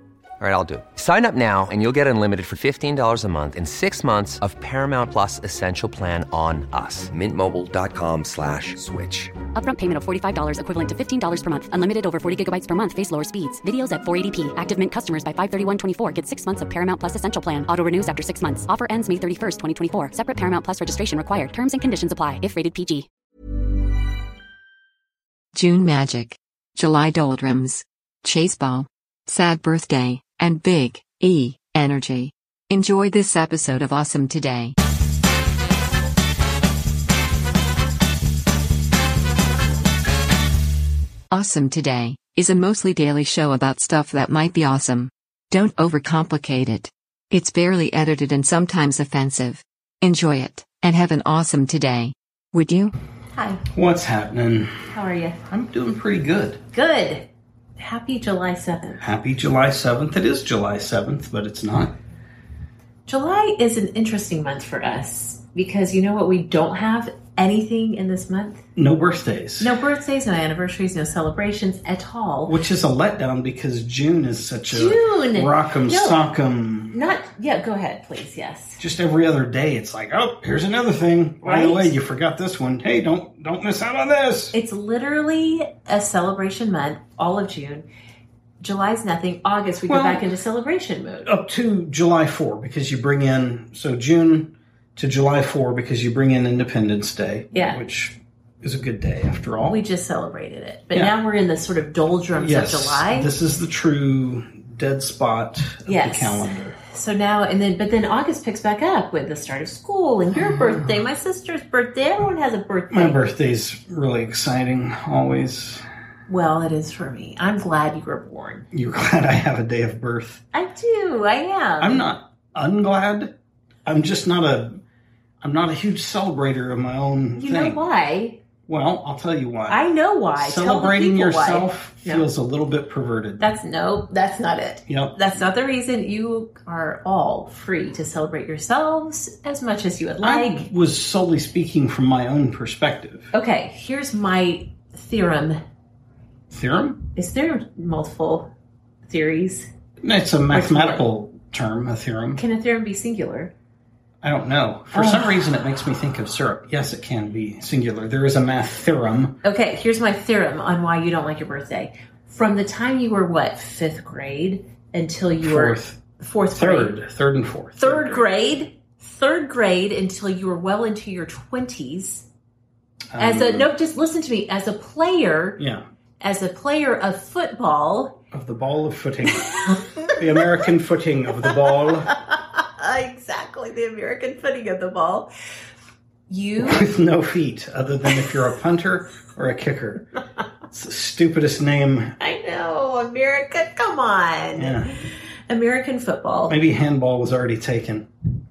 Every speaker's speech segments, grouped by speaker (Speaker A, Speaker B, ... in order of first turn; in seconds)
Speaker A: 0.4-9.3
Speaker B: 9.5-23.1
Speaker C: 25.5-34.7, 41.3-52.9
Speaker D: 53.3-53.6, 54.9-55.4, 56.7-59.0, 63.1-68.6, 69.6-72.6, 74.7-76.2, 76.9-78.8, 81.4-82.0, 84.5-87.8, 88.6-91.3, 97.5-97.8, 99.6-103.3, 105.8-113.2, 116.3-118.7, 120.5-122.0, 127.3-128.4, 129.7-132.3, 133.4-140.7, 143.3-145.6, 147.1-148.5, 149.1-149.7, 150.5-151.0, 152.3-153.5, 154.9-155.4, 159.4-166.9, 167.8-172.3, 173.2-175.6, 176.2-178.2, 179.5-180.6, 181.4-185.3, 186.3-186.9, 192.2-196.6
Speaker E: 53.7-54.8, 55.5-56.6, 59.0-62.0, 68.8-69.8, 72.5-77.0, 78.8-84.5, 89.8-90.3, 91.2-99.8, 102.3-106.8, 110.4-110.8, 112.9-115.8, 118.7-120.4, 121.8-123.3, 123.8-124.8, 125.4-127.8, 128.7-129.8, 130.3-133.4, 134.9-135.2, 140.2-143.3, 146.5-147.0, 150.0-152.4, 154.2-159.4, 165.4-166.0, 166.5-168.2, 173.1-173.7, 175.6-175.8, 178.3-182.1, 186.6-190.0, 190.7-192.2, 194.6-194.9, 196.5-198.1